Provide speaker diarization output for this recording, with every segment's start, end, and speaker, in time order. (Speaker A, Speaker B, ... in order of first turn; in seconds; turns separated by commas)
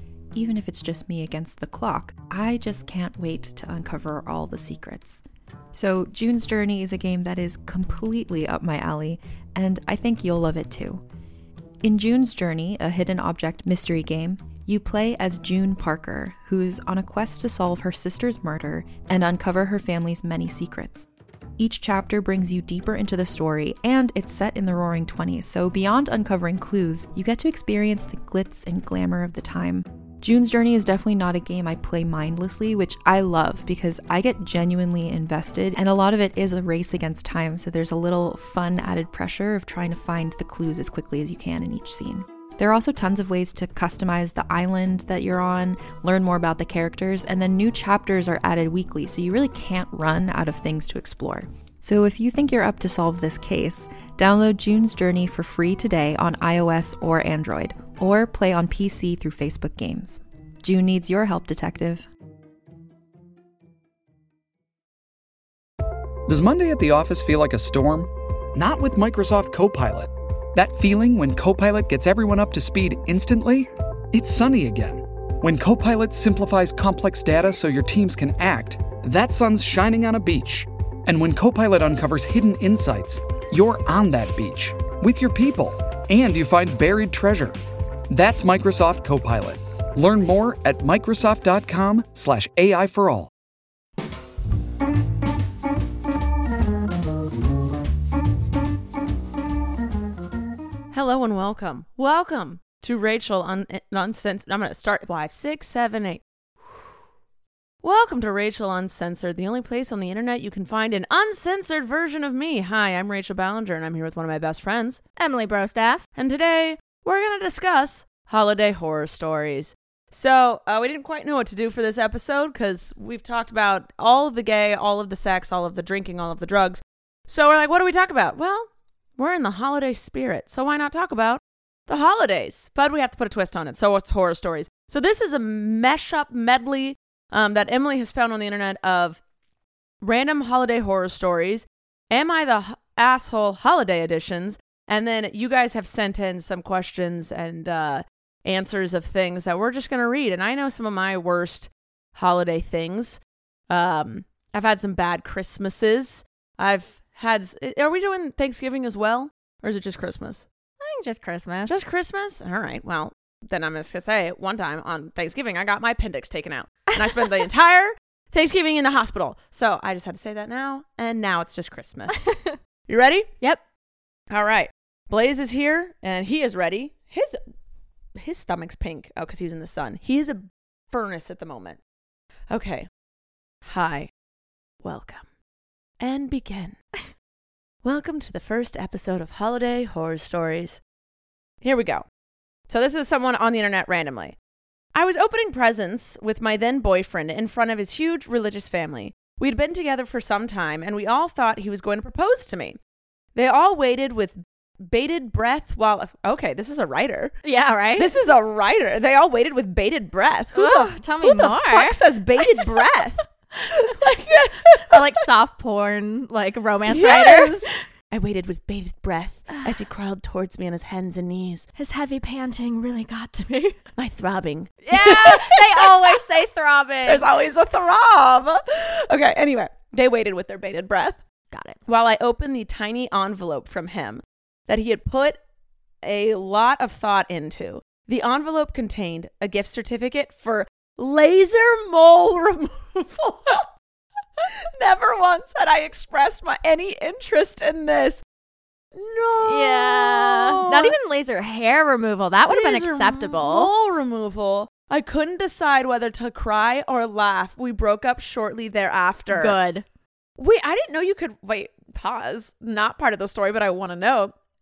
Speaker A: 0.3-5.2, Speaker A: 5.7-11.0, Speaker A: 11.8-21.1, Speaker A: 21.6-62.1, Speaker B: 66.2-87.5, Speaker B: 88.1-93.3, Speaker C: 100.9-106.2, Speaker C: 107.8-115.0, Speaker D: 115.2-116.0, Speaker C: 116.2-139.2, Speaker C: 140.0-160.4, Speaker D: 160.8-161.7, Speaker C: 161.7-172.3, Speaker D: 172.1-172.6, Speaker C: 172.9-173.3, Speaker C: 174.3-177.4, Speaker C: 178.2-181.8, Speaker C: 182.5-182.9, Speaker C: 183.6-184.1, Speaker C: 184.8-185.2, Speaker C: 186.0-186.8, Speaker C: 187.8-190.8, Speaker C: 191.6-192.0, Speaker C: 192.7-194.3, Speaker C: 194.9-202.8, Speaker C: 203.3-207.3, Speaker D: 207.4-208.1, Speaker C: 207.9-215.0, Speaker D: 210.5-212.9, Speaker D: 214.8-217.7, Speaker C: 216.9-221.7, Speaker D: 221.8-223.8, Speaker C: 224.0-226.2, Speaker D: 224.8-227.2, Speaker C: 227.1-231.2, Speaker D: 231.5-231.8, Speaker C: 231.9-235.4, Speaker C: 236.0-243.7, Speaker C: 244.4-248.2, Speaker C: 248.9-250.9, Speaker D: 249.4-253.7, Speaker C: 252.5-259.6, Speaker D: 259.3-259.8, Speaker C: 260.4-264.3